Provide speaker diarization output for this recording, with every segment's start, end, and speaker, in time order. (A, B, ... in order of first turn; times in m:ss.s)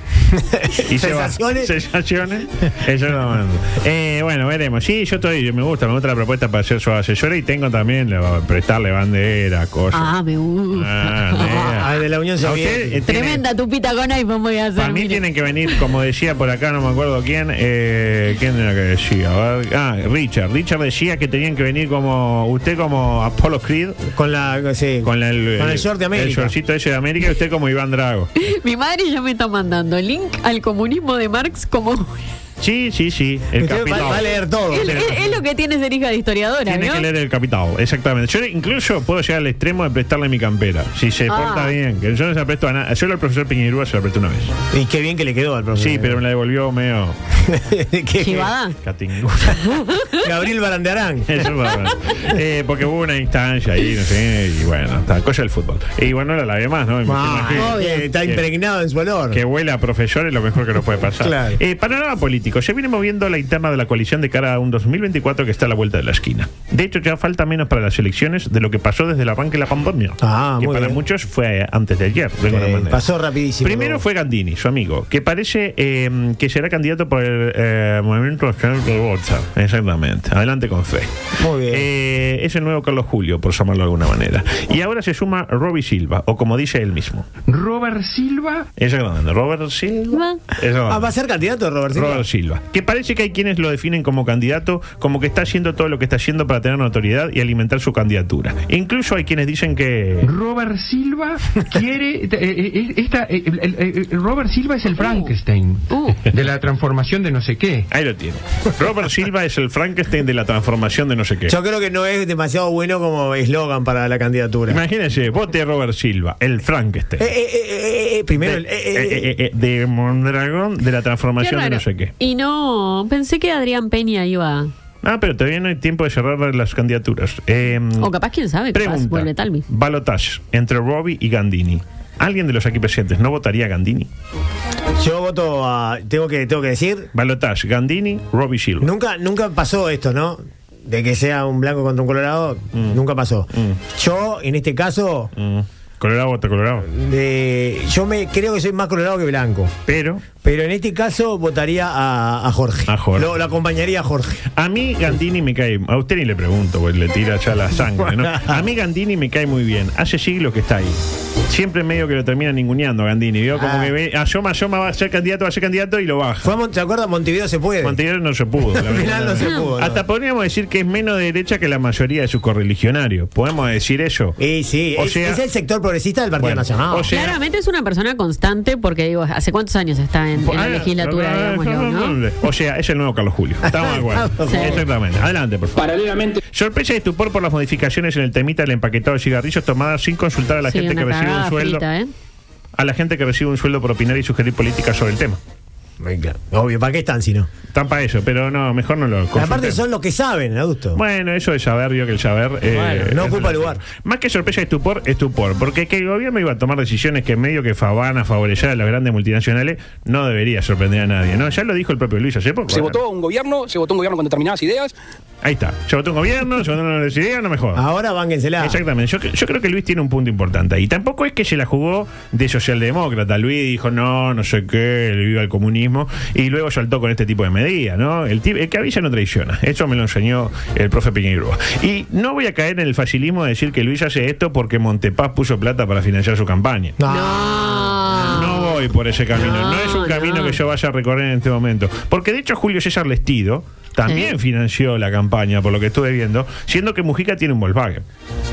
0:00.3-0:01.7 A
0:00.9-0:10.1 B
0:09.9-0:11.8 C
0:10.7-0:13.4 B
0:11.6-0:13.0 A
0:13.1-0:15.8 C
0:14.8-0:24.0 B
0:24.1-0:26.5 A
0:25.0-0:28.3 B
0:28.4-0:32.3 C
0:32.6-0:35.2 B
0:33.6-0:35.3 A
0:34.7-0:37.0 C
0:36.6-0:44.5 B
0:41.3-0:41.7 C
0:44.7-0:46.2 A
0:45.8-0:47.2 B
0:47.4-0:48.5 A
0:48.2-0:48.7 C
0:48.8-0:49.6 B
0:49.6-0:50.2 C
0:50.2-0:51.5 A
0:51.3-0:58.4 B
0:57.0-0:59.4 A
0:57.5-0:58.1 C
0:59.3-1:13.0 B
1:01.2-1:01.6 A
1:10.2-1:11.0 A
1:12.5-1:14.0 A
1:13.6-1:21.1 B
1:21.4-1:21.9 A
1:21.7-1:27.2 B
1:27.4-1:28.7 D
1:28.8-1:31.1 B
1:30.1-1:30.4 C
1:30.9-1:32.2 A
1:31.9-1:40.3 B
1:40.2-1:47.9 D
1:45.0-1:45.3 C
1:45.9-1:46.2 C
1:47.9-1:51.6 B
1:51.5-1:54.8 A
1:54.7-1:57.3 B
1:57.2-1:59.3 A
1:58.4-2:02.1 B
2:01.4-2:04.7 C
2:05.0-2:08.1 B
2:08.0-2:09.6 C
2:08.7-2:14.1 B
2:15.0-2:17.1 A
2:17.1-2:18.9 B
2:18.8-2:25.3 A
2:23.5-2:23.8 B
2:25.4-2:26.9 B
2:26.9-2:29.7 A
2:29.8-2:30.2 B
2:30.4-2:34.4 A
2:32.9-2:33.3 B
2:34.5-2:46.5 B
2:38.2-2:38.6 A
2:43.6-2:43.9 A
2:46.4-2:48.0 A
2:47.8-2:54.4 B
2:48.7-2:50.0 A
2:54.4-2:57.1 A
2:55.0-2:55.4 B
2:56.4-2:57.4 B
2:57.1-3:02.2 C
3:00.4-3:05.9 B
3:03.7-3:04.8 A
3:04.4-3:04.8 C
3:05.8-3:06.4 E
3:06.5-3:11.8 B
3:10.7-3:12.1 C
3:12.8-3:15.4 B
3:16.0-3:17.5 A
3:17.7-3:19.8 B
3:19.3-3:21.0 A
3:20.9-3:33.0 B
3:22.7-3:23.8 A
3:32.7-3:34.9 E
3:35.4-3:37.8 B
3:37.7-3:38.8 A
3:38.6-3:57.0 B
3:57.0-3:58.0 A
3:57.1-3:58.8 C
3:58.2-4:08.0 B
3:59.3-4:00.6 C
4:04.0-4:04.3 C